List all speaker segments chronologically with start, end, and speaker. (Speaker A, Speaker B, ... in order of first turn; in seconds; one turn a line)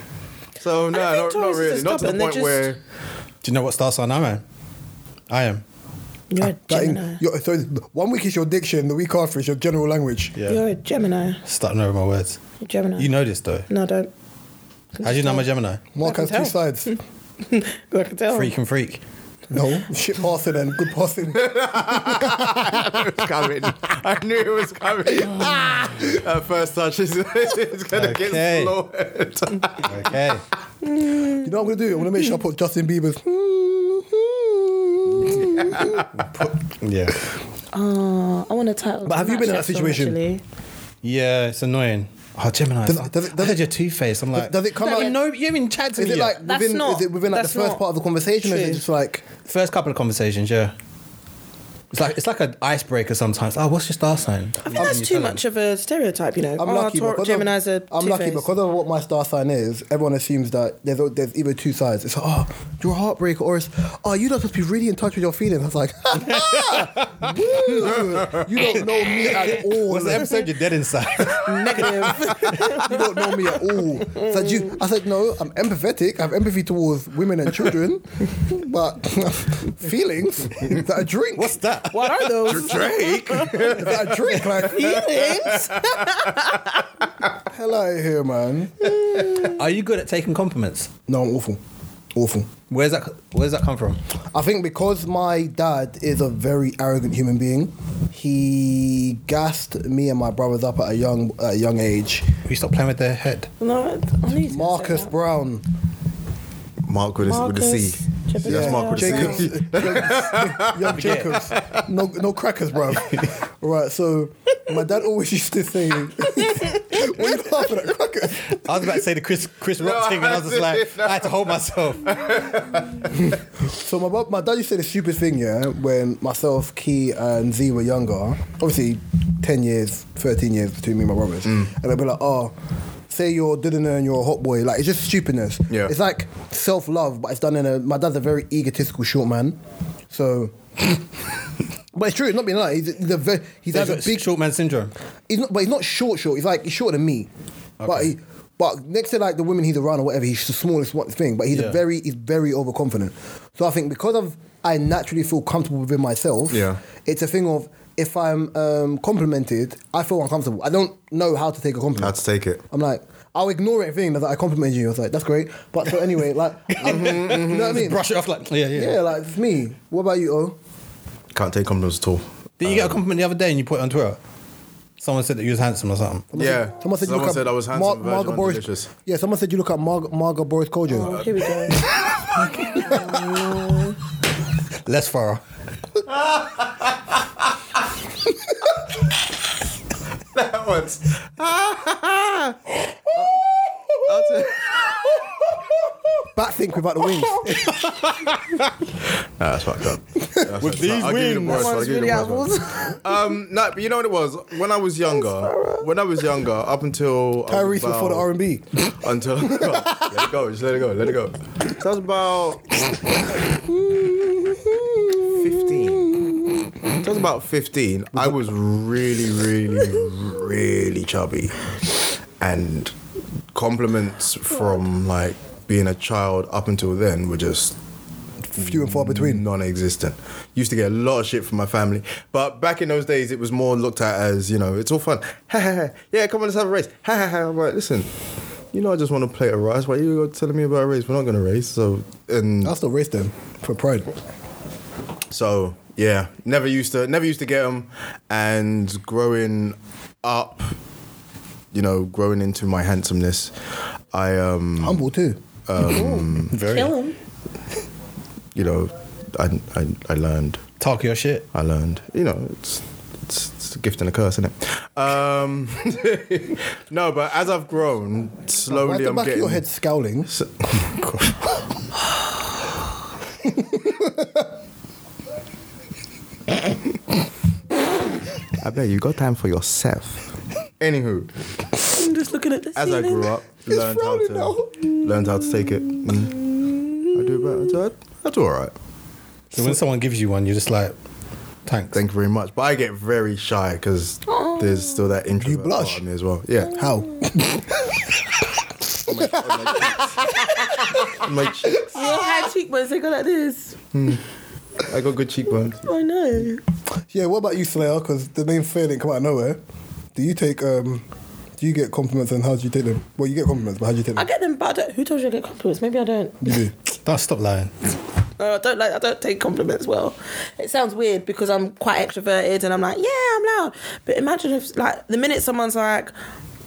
Speaker A: 0.6-2.8
Speaker B: 0.9-2.6
Speaker C: 3.4-4.4
Speaker C: 5.3-5.6
Speaker B: 6.3-7.2
Speaker D: 6.6-10.4
Speaker C: 10.4-10.6
Speaker B: 10.4-11.4
Speaker C: 11.4-12.4
Speaker B: 12.6-13.1
Speaker C: 13.0-13.7
Speaker B: 13.7-14.1
Speaker B: 14.9-15.4
Speaker C: 15.0-15.8
Speaker D: 15.9-17.0
Speaker B: 16.0-18.5
Speaker C: 18.3-19.0
Speaker D: 19.5-23.1
Speaker A: 21.3-29.9
Speaker D: 25.2-26.2
Speaker C: 27.9-28.7
Speaker C: 29.8-30.4
Speaker B: 30.8-31.5
Speaker D: 31.4-36.1
Speaker A: 35.5-36.0
Speaker C: 36.1-37.2
Speaker B: 37.7-40.4
Speaker D: 39.0-40.2
Speaker C: 41.0-46.4
Speaker D: 42.8-43.7
Speaker D: 44.3-45.1
Speaker B: 44.8-45.1
Speaker D: 46.0-49.2
Speaker B: 46.4-47.8
Speaker B: 48.4-48.8
Speaker C: 49.4-50.7
Speaker C: 51.9-55.4
Speaker B: 54.6-58.5
Speaker D: 56.6-70.5
Speaker C: 66.2-72.8
Speaker B: 71.4-74.8
Speaker D: 72.5-81.6
Speaker C: 81.3-83.5
Speaker B: 81.9-83.7
Speaker A: 82.5-86.3
Speaker D: 83.5-85.1
Speaker B: 84.6-86.9
Speaker D: 87.4-89.0
Speaker B: 88.8-89.5
Speaker C: 89.3-90.9
Speaker D: 91.1-91.6
Speaker D: 92.1-92.5
Speaker C: 92.7-94.0
Speaker D: 94.3-102.3
Speaker C: 102.4-103.5
Speaker B: 103.6-105.1
Speaker D: 104.4-105.6
Speaker A: 106.8-111.9
Speaker B: 107.2-109.5
Speaker D: 108.4-119.0
Speaker C: 110.8-111.5
Speaker B: 116.3-117.0
Speaker C: 118.4-122.2
Speaker A: 119.8-123.3
Speaker D: 123.2-132.5
Speaker D: 133.1-139.6
Speaker D: 140.1-141.0
Speaker D: 141.9-144.3
Speaker C: 143.7-144.9
Speaker D: 145.3-147.3
Speaker C: 147.8-148.1
Speaker D: 147.8-162.2
Speaker C: 151.5-151.8
Speaker A: 156.5-156.8
Speaker A: 162.0-162.6
Speaker D: 162.7-168.1
Speaker C: 166.8-169.0
Speaker A: 166.8-167.9
Speaker D: 168.7-170.6
Speaker A: 171.3-173.0
Speaker C: 172.6-174.2
Speaker C: 175.0-176.3
Speaker D: 176.3-181.2
Speaker A: 176.3-178.9
Speaker B: 180.9-181.8
Speaker D: 182.3-182.8
Speaker B: 182.4-184.0
Speaker C: 184.8-185.4
Speaker A: 186.1-187.1
Speaker A: 190.3-192.6
Speaker A: 194.0-195.3
Speaker D: 196.3-197.6
Speaker C: 197.4-198.7
Speaker A: 199.4-208.3
Speaker D: 200.2-200.6
Speaker C: 200.6-201.8
Speaker B: 201.5-203.1
Speaker B: 205.1-205.9
Speaker D: 207.5-210.2
Speaker A: 208.8-212.8
Speaker D: 213.3-216.7
Speaker A: 215.2-216.2
Speaker A: 216.9-221.7
Speaker A: 222.4-222.9
Speaker A: 223.5-227.8
Speaker D: 228.5-229.4
Speaker A: 228.6-238.1
Speaker A: 238.7-242.7
Speaker D: 242.6-244.1
Speaker A: 245.3-250.7
Speaker A: 251.7-253.5
Speaker A: 254.1-255.0
Speaker D: 254.8-255.4
Speaker A: 255.7-256.6
Speaker B: 255.8-257.1
Speaker C: 256.5-256.9
Speaker A: 258.5-260.6
Speaker C: 260.8-261.4
Speaker A: 261.5-269.6
Speaker D: 268.7-270.3
Speaker A: 270.3-270.9
Speaker C: 270.9-271.3
Speaker D: 273.4-274.5
Speaker A: 278.5-281.3
Speaker B: 281.9-283.3
Speaker A: 282.8-286.4
Speaker D: 283.6-284.9
Speaker B: 285.9-287.2
Speaker A: 287.1-288.7
Speaker C: 289.5-290.9
Speaker D: 289.5-289.8
Speaker C: 291.6-292.0
Speaker A: 291.9-296.8
Speaker B: 294.3-295.1
Speaker D: 295.4-296.0
Speaker D: 296.7-298.0
Speaker A: 299.0-300.2
Speaker D: 299.1-301.1
Speaker B: 300.3-301.0
Speaker A: 301.0-302.0
Speaker B: 301.9-303.8
Speaker A: 303.9-304.2
Speaker A: 304.8-305.8
Speaker B: 305.8-306.6
Speaker D: 307.1-309.6
Speaker D: 310.1-311.0
Speaker D: 311.6-314.2
Speaker B: 314.1-316.6
Speaker D: 316.4-316.7
Speaker C: 316.9-317.7
Speaker B: 318.4-326.1